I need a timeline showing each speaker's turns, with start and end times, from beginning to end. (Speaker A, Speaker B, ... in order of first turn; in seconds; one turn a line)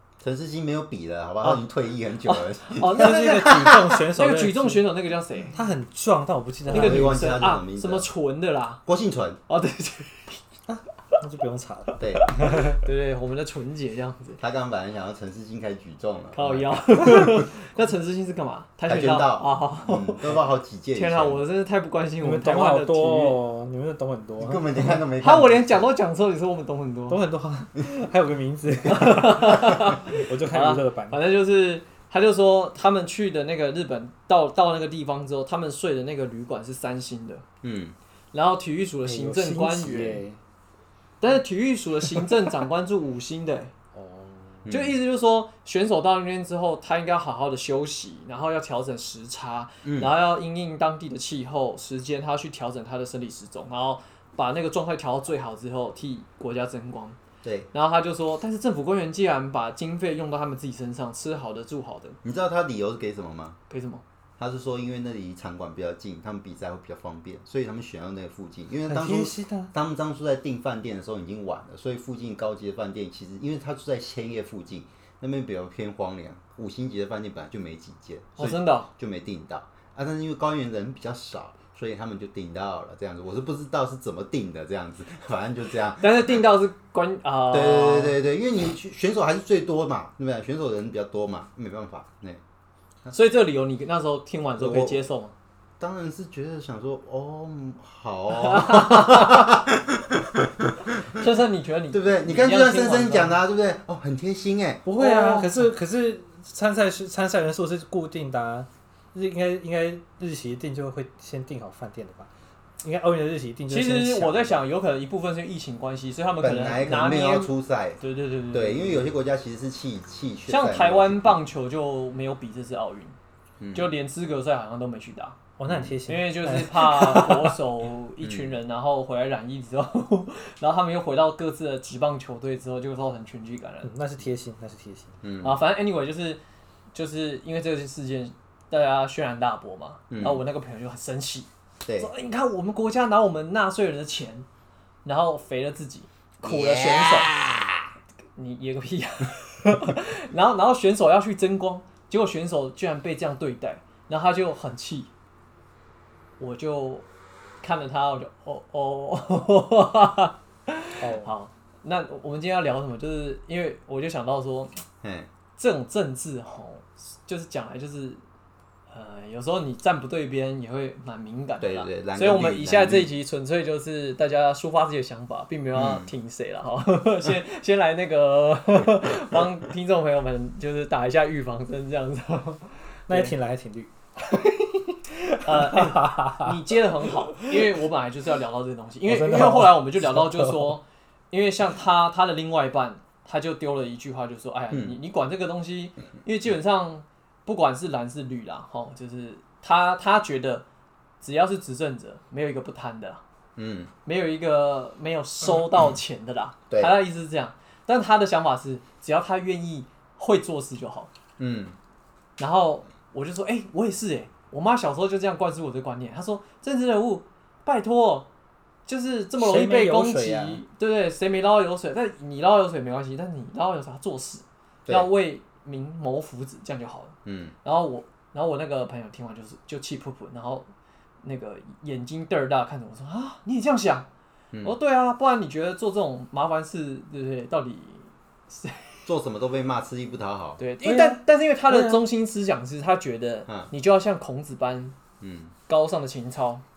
Speaker A: 0.2-4.0
Speaker B: 2.2-5.5
Speaker C: 2.9-4.8
Speaker C: 5.5-7.3
Speaker A: 6.7-8.1
Speaker B: 6.7-8.8
Speaker A: 8.8-9.4
Speaker B: 9.5-10.4
Speaker C: 10.7-12.8
Speaker A: 12.0-12.3
Speaker B: 12.2-14.4
Speaker A: 14.4-17.2
Speaker B: 16.3-20.2
Speaker A: 18.9-21.4
Speaker B: 20.9-23.4
Speaker C: 22.2-25.0
Speaker A: 24.4-25.9
Speaker B: 25.2-27.2
Speaker C: 27.1-31.2
Speaker B: 28.9-37.4
Speaker A: 37.6-38.0
Speaker B: 38.3-40.2
Speaker C: 39.0-40.4
Speaker B: 41.2-43.7
Speaker C: 42.0-42.5
Speaker C: 43.9-44.6
Speaker A: 44.6-45.0
Speaker B: 44.7-57.2
Speaker A: 49.8-50.1
Speaker A: 57.4-57.7
Speaker B: 57.7-62.2
Speaker A: 62.2-63.6
Speaker B: 63.7-64.0
Speaker A: 64.4-86.3
Speaker C: 68.8-69.7
Speaker B: 78.4-78.9
Speaker B: 86.0-88.2
Speaker A: 87.5-92.4
Speaker B: 93.1-95.3
Speaker A: 94.6-95.0
Speaker A: 95.8-101.3
Speaker B: 98.3-99.6
Speaker B: 101.1-103.4
Speaker A: 101.9-104.8
Speaker C: 104.8-112.3
Speaker B: 104.9-105.7
Speaker C: 112.8-114.5
Speaker B: 113.7-119.1
Speaker A: 116.4-118.0
Speaker A: 118.5-121.4
Speaker B: 120.5-123.1
Speaker A: 123.6-123.9
Speaker B: 123.7-125.4
Speaker C: 125.6-127.6
Speaker A: 125.7-126.0
Speaker B: 126.1-133.9
Speaker A: 128.2-128.6
Speaker C: 133.8-135.1
Speaker A: 135.2-135.6
Speaker B: 135.4-136.4
Speaker B: 136.9-144.4
Speaker A: 140.1-140.4
Speaker B: 145.0-147.3
Speaker A: 146.4-147.8
Speaker B: 148.3-155.1
Speaker B: 156.4-157.1
Speaker B: 157.6-164.7
Speaker C: 161.0-161.3
Speaker A: 165.0-165.3
Speaker B: 165.6-168.2
Speaker B: 168.9-183.3
Speaker A: 171.6-173.1
Speaker A: 175.7-176.1
Speaker C: 183.1-186.6
Speaker B: 185.4-200.6
Speaker C: 189.1-190.8
Speaker A: 194.7-195.0
Speaker B: 201.2-203.2
Speaker A: 203.6-203.9
Speaker B: 204.0-211.1
Speaker A: 206.7-206.9
Speaker A: 211.4-211.8
Speaker B: 212.4-218.3
Speaker B: 218.8-230.7
Speaker C: 219.4-220.6
Speaker A: 227.2-227.5
Speaker B: 231.2-234.1
Speaker B: 234.6-239.1
Speaker A: 239.1-240.6
Speaker B: 240.6-245.0
Speaker C: 240.8-242.0
Speaker A: 245.2-245.5
Speaker B: 245.7-246.6